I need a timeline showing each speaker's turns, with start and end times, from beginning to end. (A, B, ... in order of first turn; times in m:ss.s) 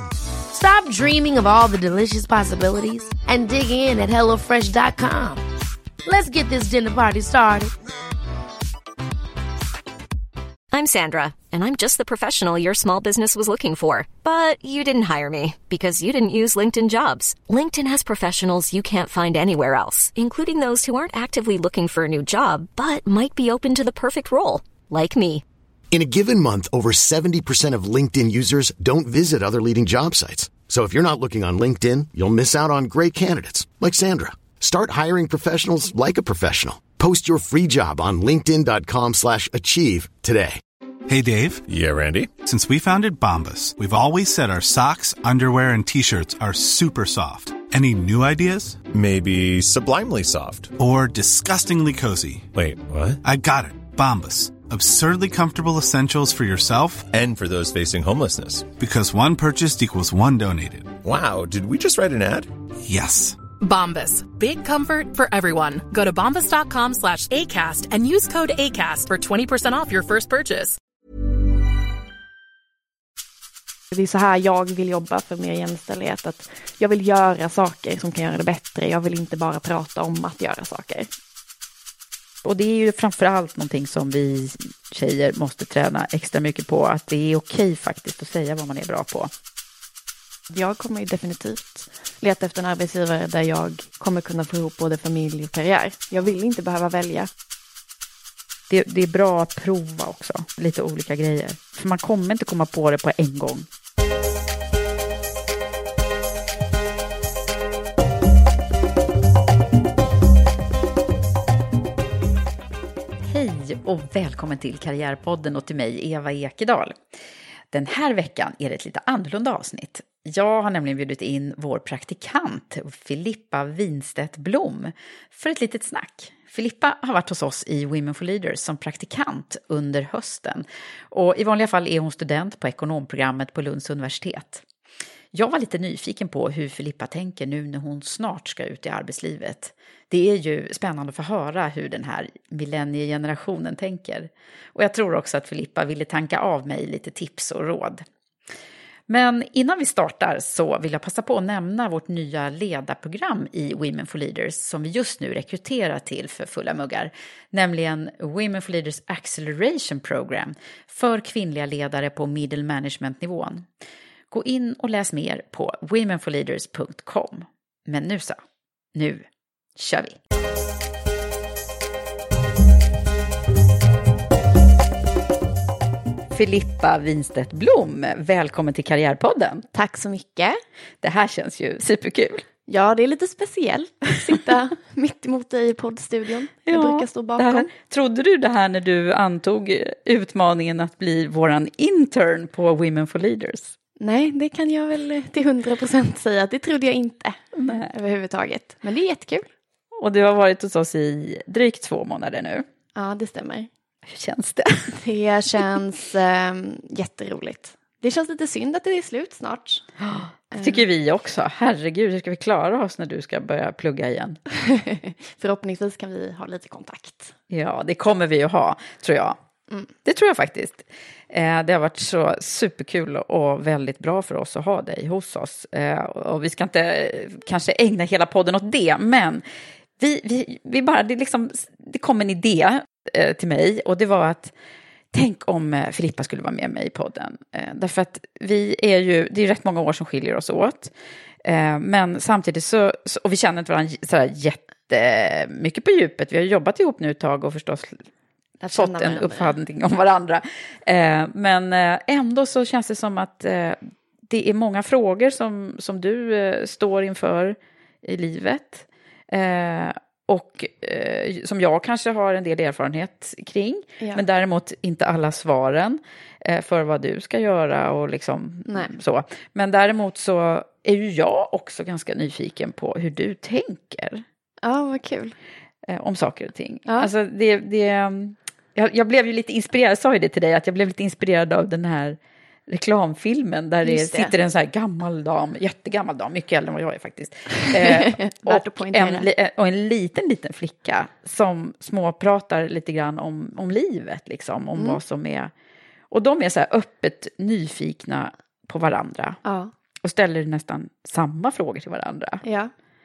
0:00.5-0:05.4 A
0:06.0-0:07.7 A
0:10.7-0:25.4 B
0:25.9-0:40.6 C
0:41.1-0:41.6 D
0:41.7-0:42.4 E
0:42.4-0:48.8 D
0:48.9-0:50.7 E
0:50.8-0:52.5 D
0:52.6-0:53.2 E
0:53.2-0:57.1 D
0:57.1-0:58.8 E
0:58.7-1:01.0 D
1:01.0-1:02.5 E
1:02.8-1:03.4 D
1:03.6-1:10.8 F
1:13.9-1:21.1 G
1:22.4-1:29.3 H
1:30.5-1:37.3 G
1:38.7-1:43.7 H
1:53.3-1:57.0 H
1:57.7-2:14.6 H
2:15.3-2:28.0 H
2:29.1-2:43.6 H
2:44.3-2:48.4 H
2:49.0-2:49.2 H
2:49.8-2:50.2 H
2:56.3-2:59.6 H
2:59.7-3:00.6 G
3:01.0-3:02.4 H
3:02.7-3:07.7 G
3:06.7-3:13.8 H
3:14.0-3:17.4 G
3:17.6-3:17.9 H
3:17.9-3:19.5 G
3:20.0-3:22.6 H
3:23.0-3:23.7 G
3:24.1-3:24.9 H
3:25.0-3:29.9 G
3:30.0-3:34.4 H
3:30.5-3:30.8 G
3:34.7-3:37.3 G
3:37.5-3:39.4 H
3:40.0-3:49.4 H
3:50.0-3:54.5 H
3:55.1-4:00.9 H
4:01.4-4:08.0 H
4:08.6-4:09.5 G
4:08.7-4:34.2 H
4:28.7-4:28.9 G
4:34.6-4:35.4 G
4:35.9-4:42.2 H
4:42.7-4:55.5 H
4:43.8-4:44.3 G
4:47.8-4:49.3 G
4:56.1-4:59.4 H
4:59.4-4:59.7 G
5:00.0-5:02.4 H
5:02.4-5:02.7 G